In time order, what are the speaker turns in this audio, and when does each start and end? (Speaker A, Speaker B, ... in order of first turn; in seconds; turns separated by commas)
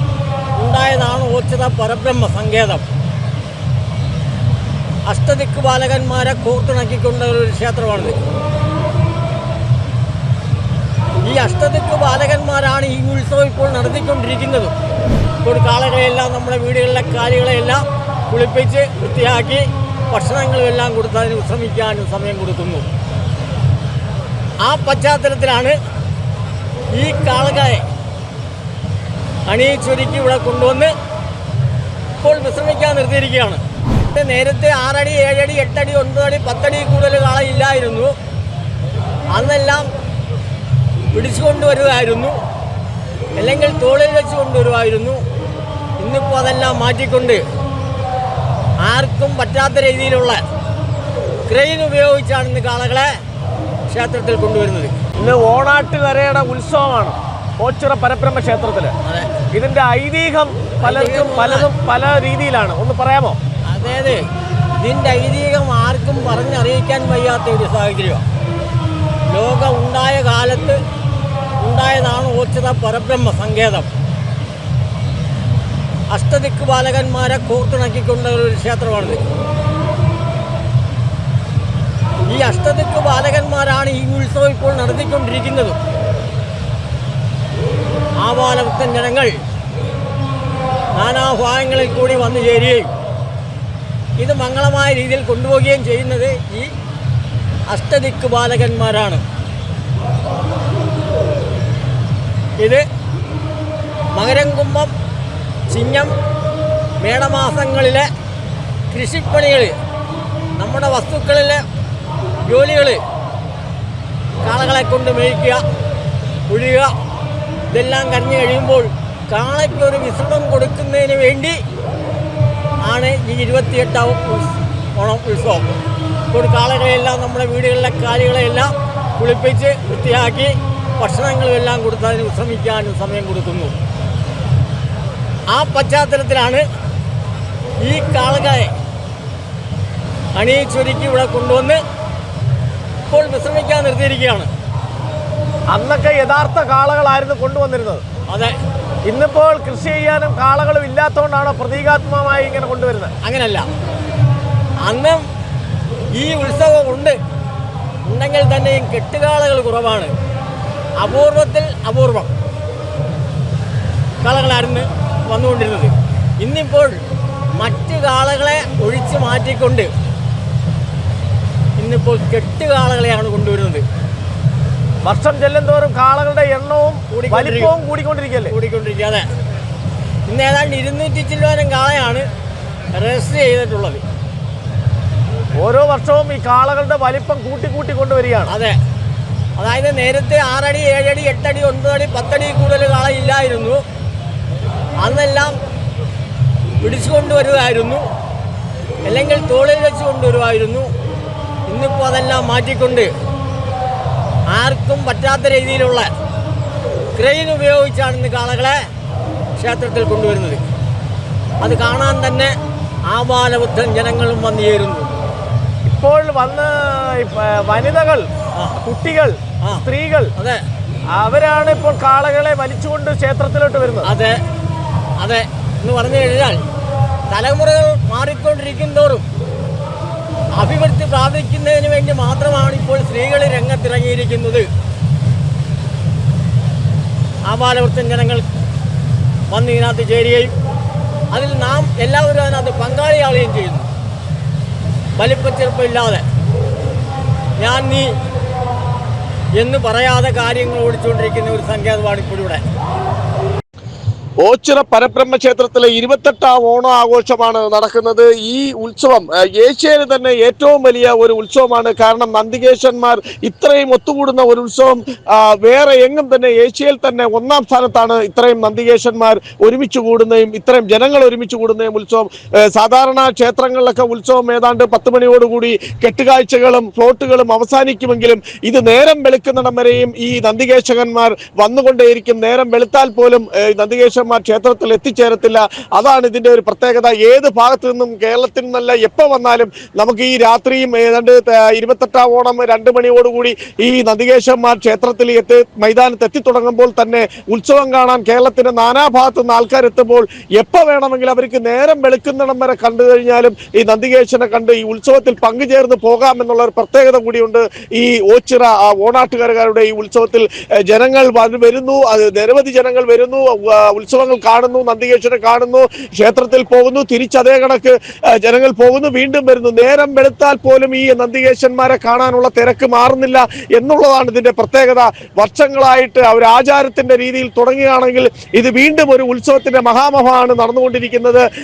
Speaker A: 0.6-2.8, Speaker A: 5.1-8.2, Speaker A: 11.2-14.7, Speaker A: 15.4-22.8, Speaker A: 24.6-25.8, Speaker A: 26.9-27.8, Speaker A: 29.5-30.9, Speaker A: 32.2-38.1, Speaker A: 39.3-39.9, Speaker A: 41.1-42.4, Speaker A: 43.4-45.2, Speaker A: 46.0-47.4, Speaker A: 48.8-50.4, Speaker A: 51.5-53.1, Speaker A: 53.9-54.9, Speaker B: 55.2-58.9, Speaker A: 59.0-59.3, Speaker B: 59.5-63.4, Speaker A: 60.8-61.7, Speaker A: 63.7-64.2, Speaker A: 64.8-68.2, Speaker A: 69.3-70.8, Speaker A: 71.6-73.9, Speaker A: 76.1-79.2, Speaker A: 82.3-85.8, Speaker A: 88.2-89.4, Speaker A: 91.0-92.9, Speaker A: 94.2-96.7, Speaker A: 97.7-99.2, Speaker A: 104.1-104.9, Speaker A: 105.7-106.1, Speaker A: 107.0-108.1, Speaker A: 108.9-109.8, Speaker A: 110.6-111.6, Speaker A: 112.4-113.0, Speaker A: 114.4-115.6, Speaker A: 116.5-116.9, Speaker A: 117.7-121.6, Speaker A: 122.8-133.7, Speaker A: 135.5-136.6, Speaker A: 137.8-138.7, Speaker A: 140.3-141.8, Speaker A: 143.1-144.5, Speaker B: 145.7-148.0, Speaker A: 148.3-148.6, Speaker B: 149.0-153.1, Speaker A: 153.2-153.7, Speaker A: 154.8-155.2, Speaker A: 156.2-157.2, Speaker A: 158.1-160.1, Speaker A: 161.0-162.3, Speaker A: 164.2-167.0, Speaker A: 167.6-169.9, Speaker A: 171.8-173.8, Speaker B: 175.0-178.5, Speaker A: 177.1-177.7, Speaker A: 178.5-179.2, Speaker A: 180.3-182.2, Speaker A: 182.9-184.0, Speaker B: 185.6-188.5, Speaker A: 188.5-188.8, Speaker A: 189.6-193.8, Speaker A: 195.0-195.5, Speaker A: 196.8-198.1, Speaker A: 199.0-200.9, Speaker A: 201.7-203.1, Speaker A: 204.5-206.1, Speaker A: 207.1-208.8, Speaker A: 209.6-210.6, Speaker A: 211.6-212.5, Speaker A: 213.1-215.1, Speaker B: 215.9-218.3, Speaker B: 218.8-220.3, Speaker A: 220.3-220.6, Speaker B: 221.1-224.1, Speaker A: 224.0-224.4, Speaker A: 225.2-226.6, Speaker A: 227.3-229.2, Speaker A: 230.6-234.7, Speaker A: 237.4-238.4, Speaker A: 239.5-240.5, Speaker A: 241.3-243.9, Speaker A: 245.2-246.2, Speaker A: 247.6-248.1, Speaker A: 249.6-252.6, Speaker B: 254.4-257.1, Speaker C: 257.3-265.0, Speaker C: 265.7-331.4